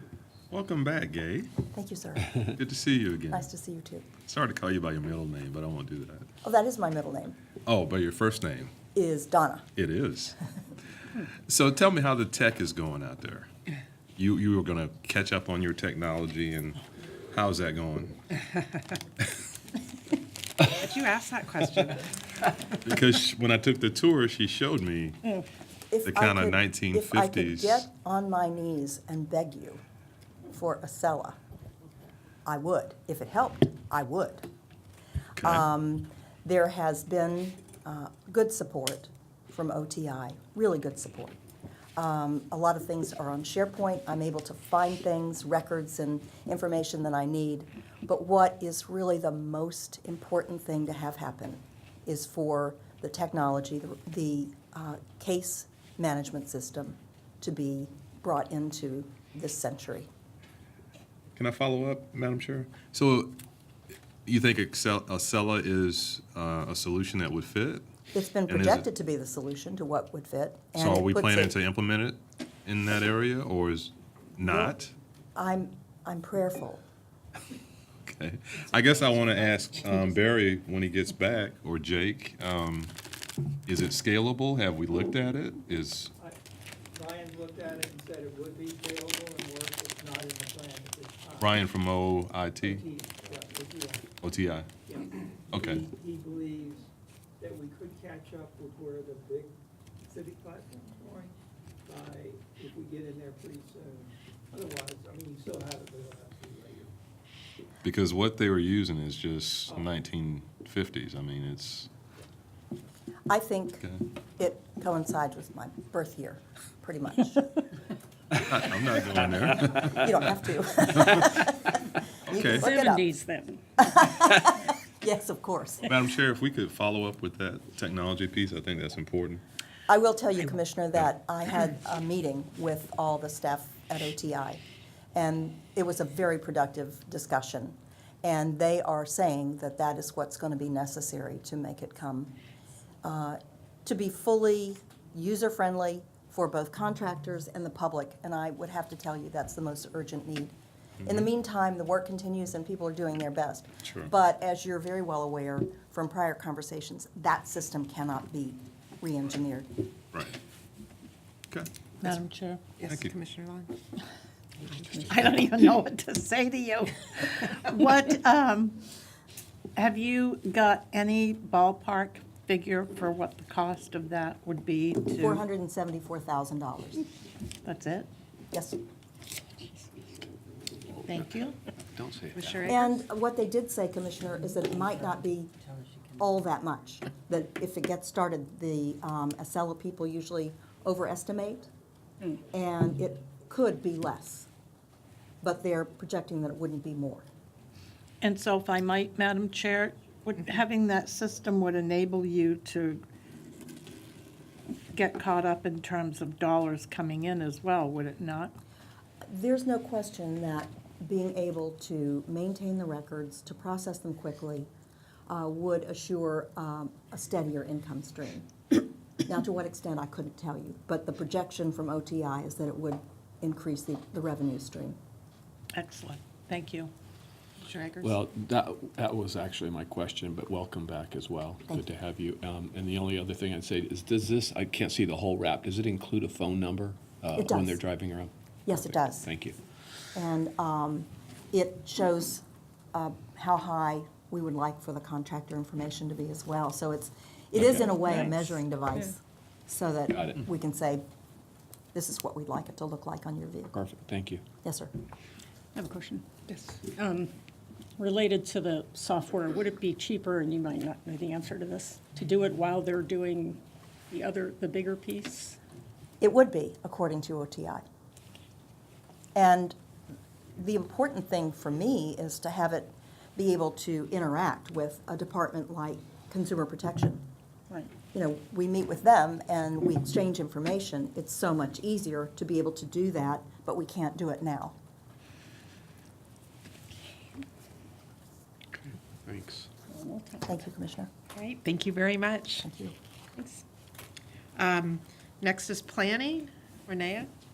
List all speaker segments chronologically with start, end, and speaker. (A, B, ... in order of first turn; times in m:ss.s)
0:00.5-0:01.5 A
0:01.7-0:02.4 B
0:02.5-0:03.5 A
0:03.3-0:04.1 B
0:04.2-0:06.2 A
0:06.4-0:07.4 B
0:07.7-0:08.8 A
0:09.0-0:09.7 B
0:09.8-0:10.4 A
0:11.2-0:13.5 A
0:14.2-0:16.8 A
0:17.3-0:18.1 A
0:20.7-0:22.0 C
0:22.8-0:25.2 A
0:25.9-0:29.8 B
0:26.0-0:27.9 A
0:30.5-0:31.4 B
0:32.4-0:34.5 B
0:35.4-0:35.6 A
0:35.4-0:41.4 B
0:42.0-1:00.1 B
1:01.4-1:03.4 A
1:04.2-1:07.8 A
1:08.1-1:11.5 B
1:08.5-1:08.8 A
1:10.8-1:14.9 A
1:14.5-1:14.7 B
1:15.4-1:16.8 B
1:18.0-1:22.9 A
1:23.6-1:26.1 A
1:26.9-1:31.6 D
1:31.4-1:32.8 A
1:32.6-1:34.1 D
1:34.2-1:34.7 A
1:34.8-1:36.9 D
1:35.5-1:35.9 A
1:37.4-1:39.6 D
1:40.1-1:41.3 D
1:41.8-1:46.9 D
1:47.8-1:51.9 A
1:53.3-1:53.8 B
1:54.4-1:57.6 B
1:58.3-2:00.2 A
1:59.9-2:03.1 B
2:01.0-2:01.3 A
2:02.3-2:02.6 A
2:02.4-2:03.6 E
2:03.8-2:05.9 B
2:05.8-2:09.4 A
2:09.9-2:14.6 B
2:15.1-2:22.4 B
2:23.0-2:30.5 B
2:31.1-2:39.9 B
2:42.0-2:42.6 F
2:42.8-2:43.7 C
2:42.9-2:43.1 A
2:44.7-2:45.0 C
2:45.1-2:48.8 F
2:49.8-2:55.4 F
2:55.2-2:57.0 B
2:57.6-2:58.1 F
2:58.5-2:58.8 B
3:01.0-3:01.2 G
3:01.1-3:01.6 F
3:01.9-3:02.8 G
3:02.7-3:05.5 B
3:06.2-3:11.7 B
3:12.5-3:14.5 B
3:15.4-3:17.3 B
3:18.2-3:23.0 F
3:24.9-3:28.5 F
3:29.3-3:34.7 B
3:35.3-3:45.0 B
3:45.8-3:46.9 F
3:47.6-3:48.1 C
3:48.0-3:59.6 G
3:57.3-3:57.8 B
3:58.7-3:59.3 B
4:00.1-4:11.0 B
4:07.6-4:08.0 G
4:10.1-4:10.4 G
4:11.9-4:13.8 B
4:13.7-4:14.4 G
4:14.6-4:14.9 B
4:15.8-4:16.2 E
4:16.8-4:17.3 E
4:18.0-4:25.6 E
4:26.2-4:27.8 B
4:29.3-4:29.8 B
4:30.6-4:37.2 B
4:38.1-4:44.8 B
4:48.9-4:49.7 G
4:49.9-4:50.4 E
4:50.4-4:51.1 B
4:51.6-4:52.6 C
4:52.6-4:52.9 B
4:54.6-4:57.3 C